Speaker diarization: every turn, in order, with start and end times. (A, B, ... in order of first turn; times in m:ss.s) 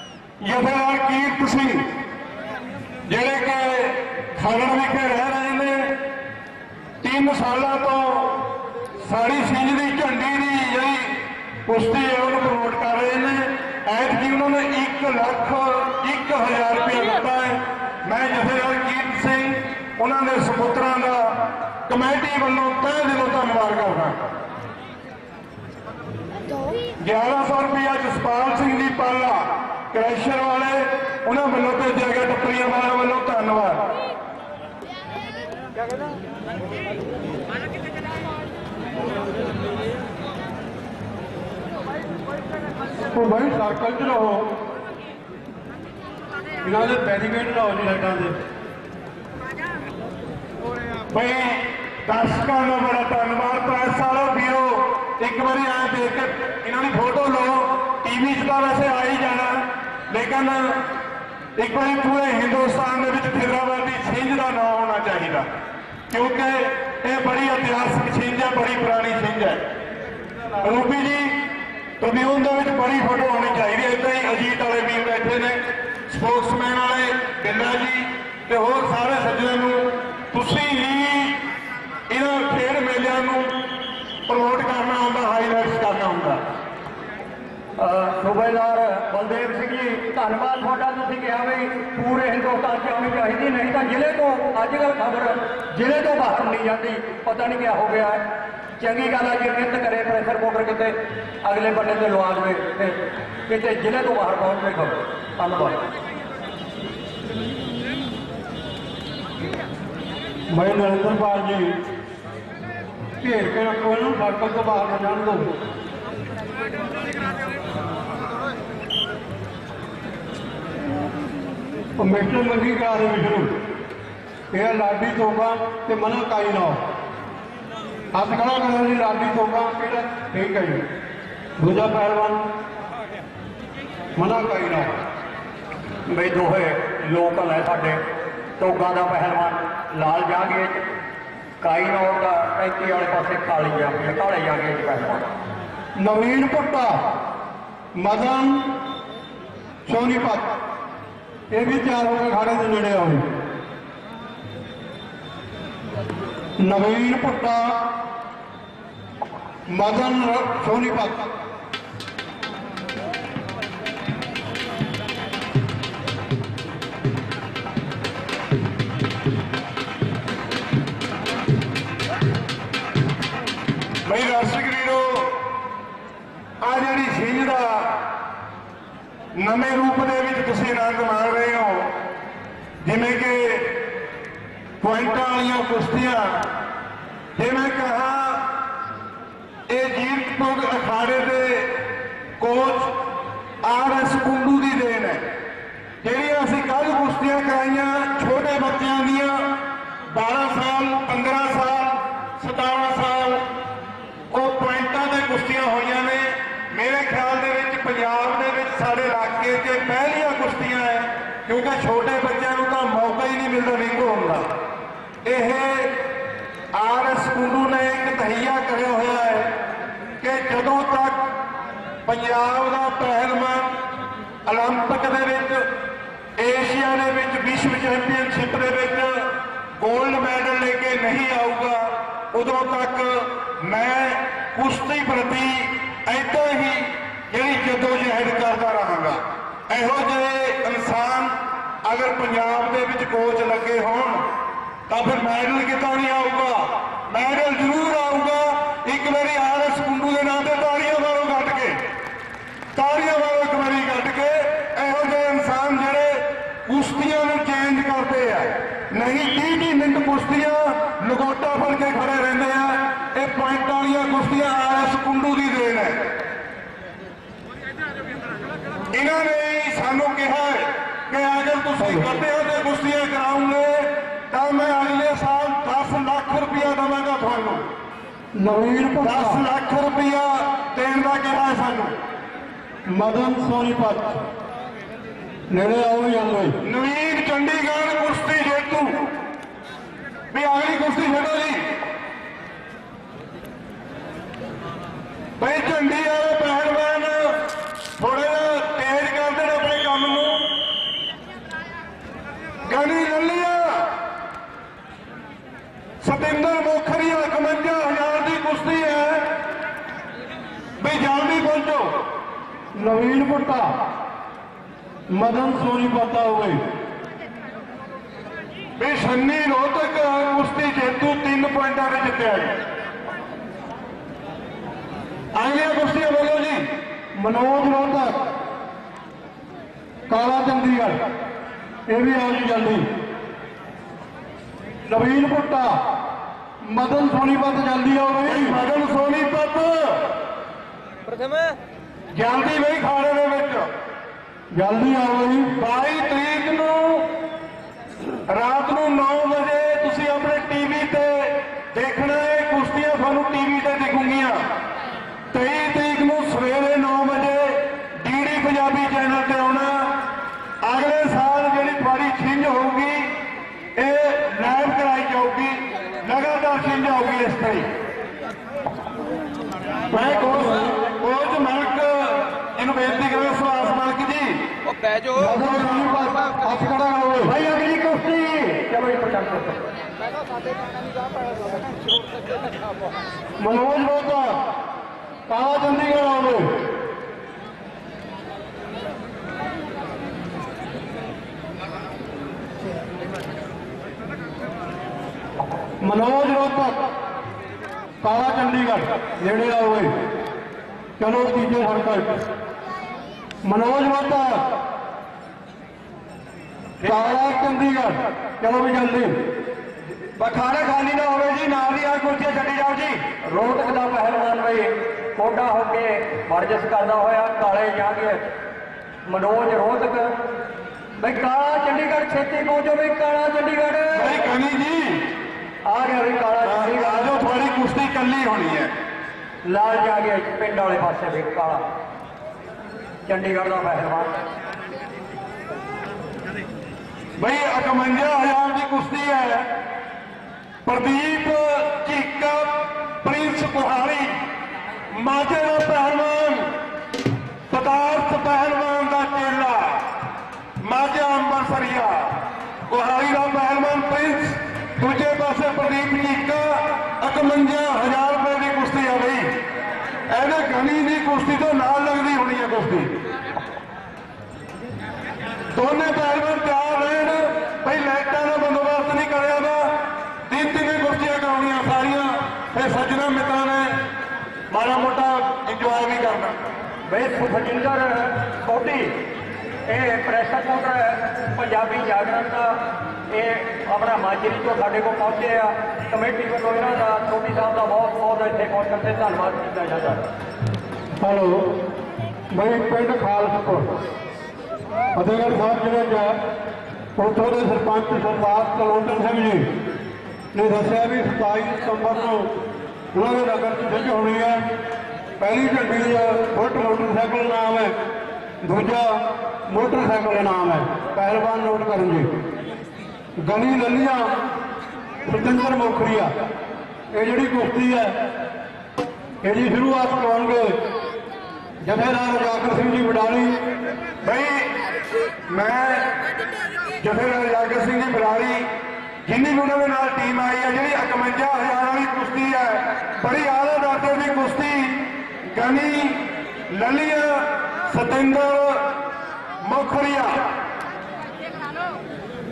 0:00.4-0:01.8 A
0:03.0-0:05.9 A
0:07.0-0:08.4 A
0:09.0-0:24.3 A
0:27.0-0:33.8 A
0:43.1-0:44.4 B
0:46.6-0:48.3 B
0:51.1-1:00.8 A
1:01.6-1:05.5 A
1:06.1-1:09.6 A
1:10.6-1:11.4 A
1:12.0-1:21.4 A
1:22.1-1:23.5 A
1:24.3-1:26.4 A
1:27.8-1:38.2 C
1:38.8-1:45.8 C
1:50.5-1:51.8 B
1:53.2-1:55.5 B
2:02.0-2:03.5 B
2:04.5-2:06.8 B
2:08.1-2:10.8 B
2:11.6-2:12.4 B
2:14.2-2:14.9 B
2:16.1-2:18.0 C
2:18.6-2:20.8 C
2:21.6-2:25.3 C
2:26.0-2:27.0 B
2:27.9-2:28.7 B
2:29.8-2:30.4 B
2:31.5-2:33.2 B
2:36.6-2:37.8 B
2:39.7-2:41.2 B
2:54.0-2:55.2 A
2:56.6-2:58.0 A
2:59.3-3:01.9 A
3:02.8-3:03.7 A
3:04.8-3:06.4 A
3:07.4-3:08.4 A
3:09.7-3:11.7 A
3:12.4-3:12.9 A
3:13.6-3:15.2 A
3:16.0-3:19.5 A
3:20.1-3:23.4 A
3:24.3-3:34.4 A
3:35.2-3:35.9 A
3:36.7-3:39.5 A
3:40.2-3:41.2 A
3:42.0-3:43.7 A
3:44.4-3:45.7 A
3:46.4-3:49.3 A
3:49.8-4:04.2 A
4:04.9-4:11.8 A
4:12.7-4:26.0 A
4:28.9-4:37.6 A
4:38.3-4:39.4 B
4:39.0-4:41.9 A
4:42.9-4:44.2 B
4:45.5-4:46.6 B
4:46.6-4:49.0 A
4:50.3-4:51.6 A
4:55.4-4:57.4 A
4:58.0-5:00.5 A
5:02.6-5:03.8 A
5:06.0-5:09.2 A
5:10.8-5:11.9 A
5:12.7-5:13.7 B
5:15.1-5:16.6 B
5:18.8-5:22.5 A
5:25.3-5:26.6 A
5:27.2-5:28.2 B
5:30.1-5:31.0 B
5:31.9-5:32.8 B
5:34.9-5:35.8 B
5:36.6-5:38.6 B
5:38.2-5:40.0 A
5:42.1-5:43.7 A
5:44.5-5:45.5 B
5:45.5-5:47.0 A
5:48.3-5:54.4 A
5:55.3-6:00.0 A
6:00.6-6:03.1 A
6:03.7-6:07.6 A
6:09.9-6:14.4 A
6:15.1-6:17.3 B
6:15.2-6:15.8 A
6:17.2-6:19.6 C
6:23.4-6:24.4 B
6:25.3-6:26.5 B
6:35.8-6:36.8 B
6:38.0-6:39.9 B
6:41.0-6:42.2 B
6:43.4-6:44.4 B
6:46.8-6:47.2 A
6:46.8-6:49.1 B
6:50.1-6:53.0 A
6:53.3-6:58.2 C
6:59.0-7:00.1 C
7:01.0-7:04.2 C
7:03.9-7:05.0 A
7:05.6-7:07.3 C
7:06.4-7:08.7 A
7:09.4-7:11.6 C
7:13.1-7:14.2 C
7:17.2-7:19.4 A
7:20.6-7:24.1 A
7:24.9-7:26.5 A
7:27.5-7:29.8 A
7:30.6-7:32.1 A
7:32.7-7:39.3 A
7:40.1-7:42.9 A
7:45.5-7:49.7 A
7:50.3-7:53.7 A
7:54.5-7:56.4 A
7:56.9-7:59.0 C
7:59.7-8:02.6 C
8:03.1-8:10.0 C
8:11.0-8:11.5 B
8:12.3-8:13.7 B
8:14.9-8:16.2 B
8:17.0-8:19.5 B
8:20.3-8:22.3 B
8:22.9-8:24.4 B
8:25.2-8:27.7 B
8:28.4-8:32.1 B
8:33.2-8:34.1 B
8:35.0-8:36.1 B
8:36.9-8:37.9 B
8:39.2-8:40.6 B
8:41.6-8:43.4 B
8:44.0-8:44.5 A
8:45.3-8:45.9 A
8:46.8-8:48.5 A
8:49.0-8:58.6 A
8:59.4-9:00.2 A